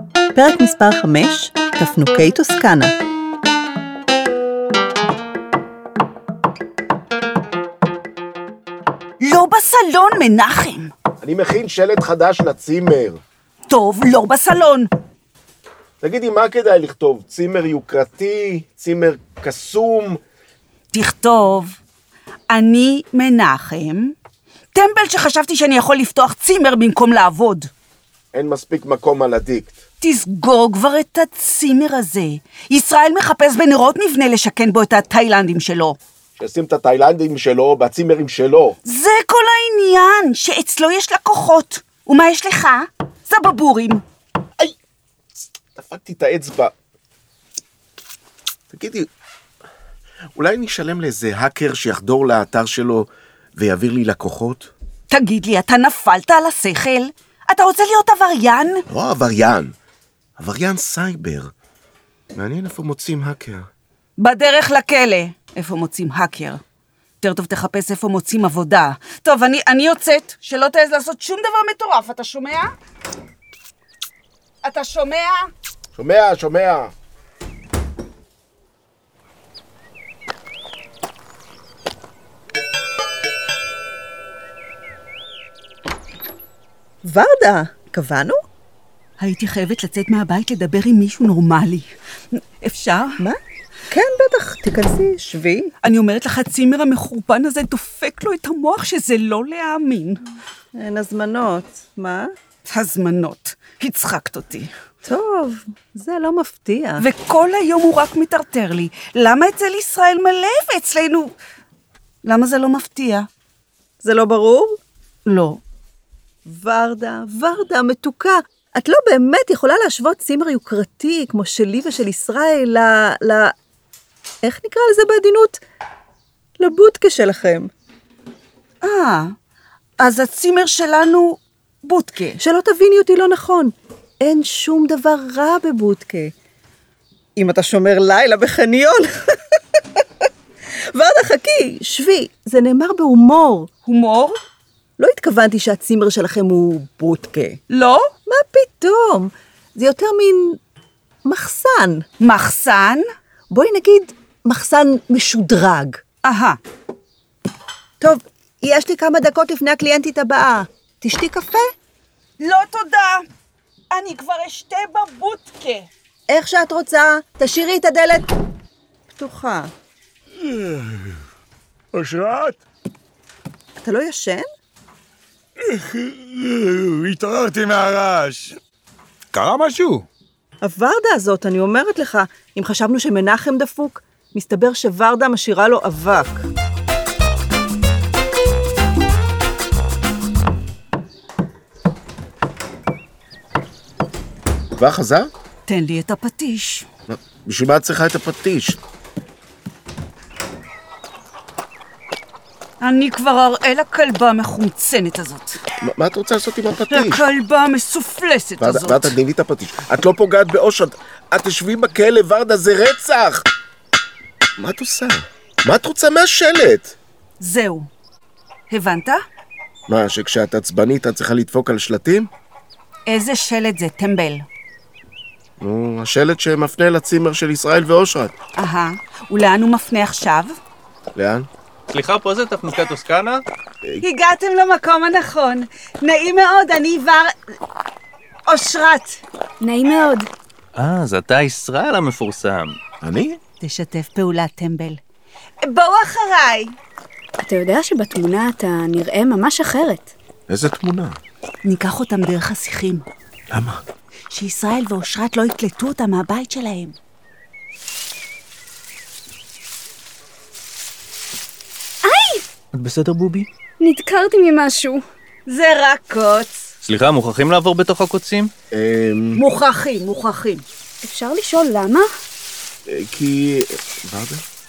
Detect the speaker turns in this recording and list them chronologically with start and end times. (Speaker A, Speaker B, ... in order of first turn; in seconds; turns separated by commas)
Speaker A: 0.3-2.9, Speaker B: 9.2-10.9, Speaker C: 11.2-13.2, Speaker B: 13.7-14.9, Speaker C: 16.0-20.2, Speaker B: 20.9-21.8, Speaker B: 22.5-24.1, Speaker B: 24.7-27.7, Speaker C: 28.3-29.8, Speaker B: 30.0-36.0, Speaker C: 36.4-38.8, Speaker B: 38.9-44.0, Speaker C: 45.8-46.7, Speaker C: 48.7-49.1, Speaker C: 50.4-54.7, Speaker B: 55.1-58.9, Speaker C: 58.9-59.7, Speaker C: 60.4-61.5, Speaker C: 62.3-63.7, Speaker B: 64.2-66.6, Speaker B: 67.2-72.7, Speaker B: 74.6-75.5, Speaker C: 76.0-76.9, Speaker A: 87.0-88.4, Speaker B: 89.2-93.2, Speaker A: 93.9-95.7, Speaker B: 95.8-100.2, Speaker A: 100.8-102.3, Speaker B: 102.7-104.7, Speaker A: 105.0-107.0, Speaker B: 107.0-111.3, Speaker B: 112.2-113.3, Speaker A: 114.0-114.8, Speaker B: 115.2-115.6, Speaker A: 116.5-123.5, Speaker A: 124.4-125.6, Speaker A: 126.6-127.7, Speaker B: 128.8-129.3, Speaker B: 130.0-132.4, Speaker A: 132.4-136.3, Speaker A: 137.4-139.2, Speaker A: 140.9-143.7, Speaker B: 143.9-144.3, Speaker A: 145.0-147.6, Speaker B: 147.7-148.1, Speaker A: 148.3-150.6, Speaker A: 151.2-152.0, Speaker B: 152.2-153.0, Speaker A: 153.5-156.0, Speaker B: 156.2-156.6, Speaker A: 158.0-161.7, Speaker B: 162.4-163.2, Speaker B: 163.9-165.9, Speaker A: 166.3-168.3, Speaker A: 169.1-169.7, Speaker D: 170.5-171.0, Speaker D: 171.9-172.6, Speaker A: 173.8-174.4, Speaker D: 175.7-178.6, Speaker D: 179.3-180.1, Speaker A: 180.6-186.5, Speaker C: 194.8-195.3, Speaker B: 195.7-196.9, Speaker C: 197.1-198.8, Speaker B: 202.8-205.6, Speaker C: 205.8-207.2, Speaker B: 206.9-209.2, Speaker C: 208.6-213.5, Speaker C: 214.6-216.9, Speaker B: 217.4-217.9, Speaker B: 218.7-219.2, Speaker C: 219.9-222.3, Speaker B: 223.1-224.4, Speaker C: 225.6-228.3, Speaker B: 228.6-230.6, Speaker C: 231.2-231.5, Speaker E: 231.9-233.4, Speaker B: 234.0-237.3, Speaker B: 238.5-239.2, Speaker F: 239.6-240.3, Speaker E: 240.8-242.8, Speaker C: 243.0-243.4, Speaker B: 243.6-245.0, Speaker B: 245.6-246.8, Speaker F: 247.4-250.1, Speaker C: 250.5-251.2, Speaker B: 251.7-253.1, Speaker C: 253.5-253.8, Speaker B: 254.3-256.9, Speaker F: 262.0-262.4, Speaker E: 262.7-263.5, Speaker F: 263.8-265.0, Speaker B: 265.5-266.7, Speaker E: 266.8-268.5, Speaker C: 268.7-269.4, Speaker B: 269.4-270.6, Speaker F: 271.0-272.1, Speaker C: 272.9-274.4